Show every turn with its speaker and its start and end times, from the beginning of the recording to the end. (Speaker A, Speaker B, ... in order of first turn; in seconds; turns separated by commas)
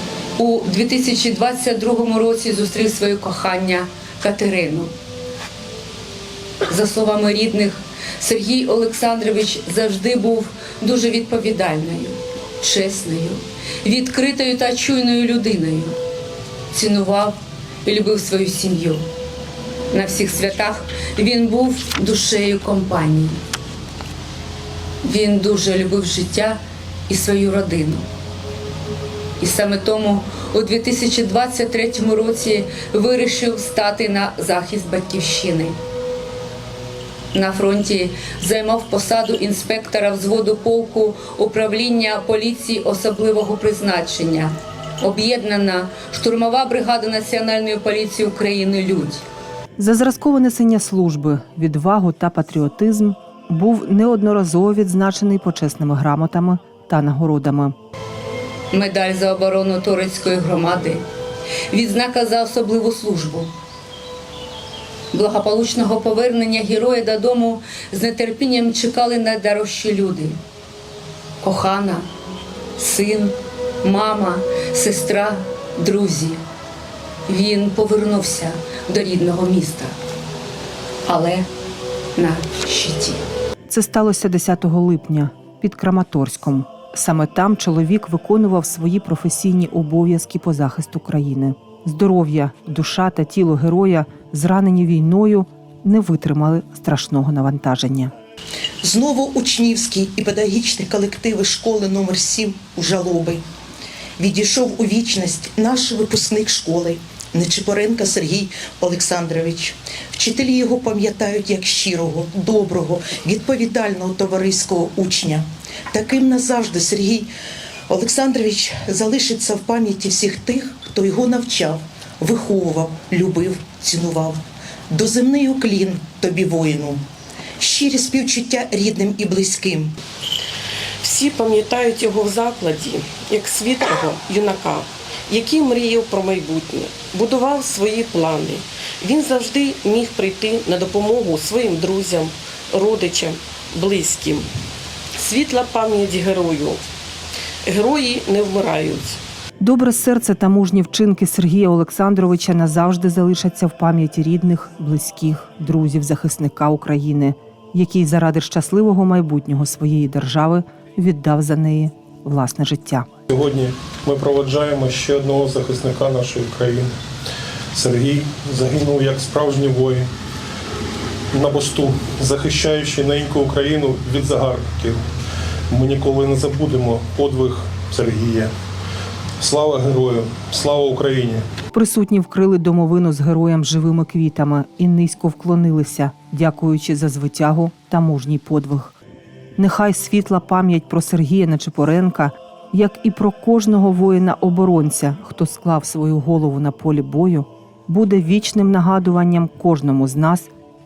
Speaker A: 0.4-4.9, Speaker A: 6.7-15.9, Speaker A: 16.7-19.0, Speaker A: 19.9-23.4, Speaker A: 25.0-28.1, Speaker A: 29.4-35.7, Speaker A: 37.3-49.2, Speaker B: 49.8-57.7, Speaker A: 58.7-61.0, Speaker A: 61.7-63.5, Speaker A: 65.1-70.4, Speaker A: 71.4-72.0, Speaker A: 72.8-76.4, Speaker A: 77.3-79.9, Speaker A: 81.0-81.4, Speaker A: 82.2-83.2, Speaker B: 83.7-98.1, Speaker C: 98.8-103.4, Speaker C: 104.2-117.3, Speaker C: 117.9-127.0, Speaker C: 127.6-129.9, Speaker D: 131.0-144.5, Speaker D: 145.1-146.8, Speaker D: 147.6-149.2, Speaker B: 149.6-163.1, Speaker E: 163.3-166.9, Speaker E: 167.7-170.1, Speaker E: 171.3-175.0, Speaker E: 175.7-178.5, Speaker E: 179.4-181.4, Speaker B: 181.7-189.0, Speaker B: 189.6-200.5